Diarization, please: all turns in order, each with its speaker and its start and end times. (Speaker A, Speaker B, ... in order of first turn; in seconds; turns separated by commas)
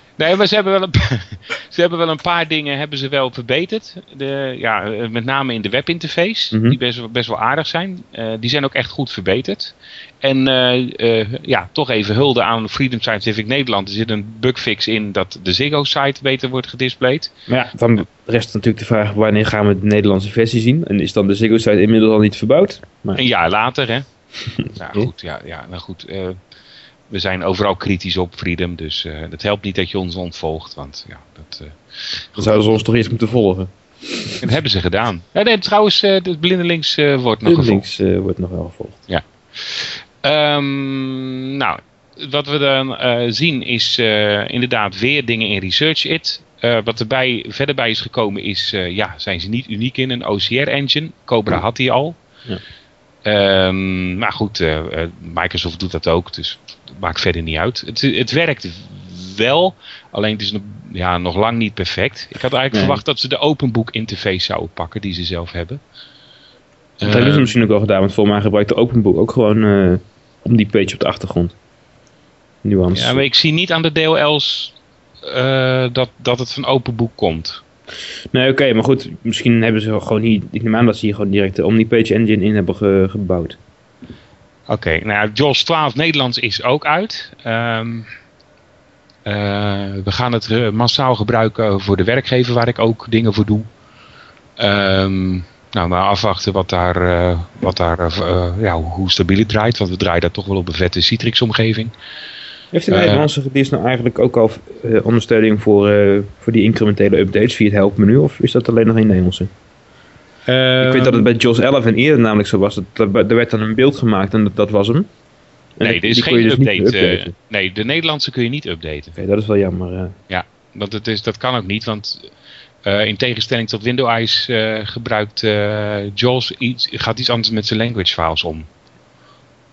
Speaker A: 0.2-17.3, Speaker B: 6.5-6.8, Speaker B: 17.5-23.2, Speaker A: 23.1-24.1, Speaker A: 24.7-26.4, Speaker A: 27.1-32.4, Speaker B: 32.4-34.4, Speaker A: 34.4-37.9, Speaker B: 37.5-39.0, Speaker A: 39.1-52.2, Speaker A: 53.2-65.8, Speaker B: 62.7-63.0, Speaker A: 67.0-67.5, Speaker B: 67.0-71.5, Speaker B: 72.6-73.3, Speaker A: 72.9-77.6, Speaker B: 78.3-83.6, Speaker A: 84.7-88.1, Speaker A: 89.2-93.7, Speaker A: 94.6-101.9, Speaker B: 102.7-109.5, Speaker A: 102.9-103.3, Speaker A: 110.5-111.3, Speaker B: 110.8-115.1, Speaker B: 115.8-117.3, Speaker A: 115.8-119.2, Speaker B: 119.2-120.2, Speaker A: 120.3-122.3, Speaker A: 122.8-128.7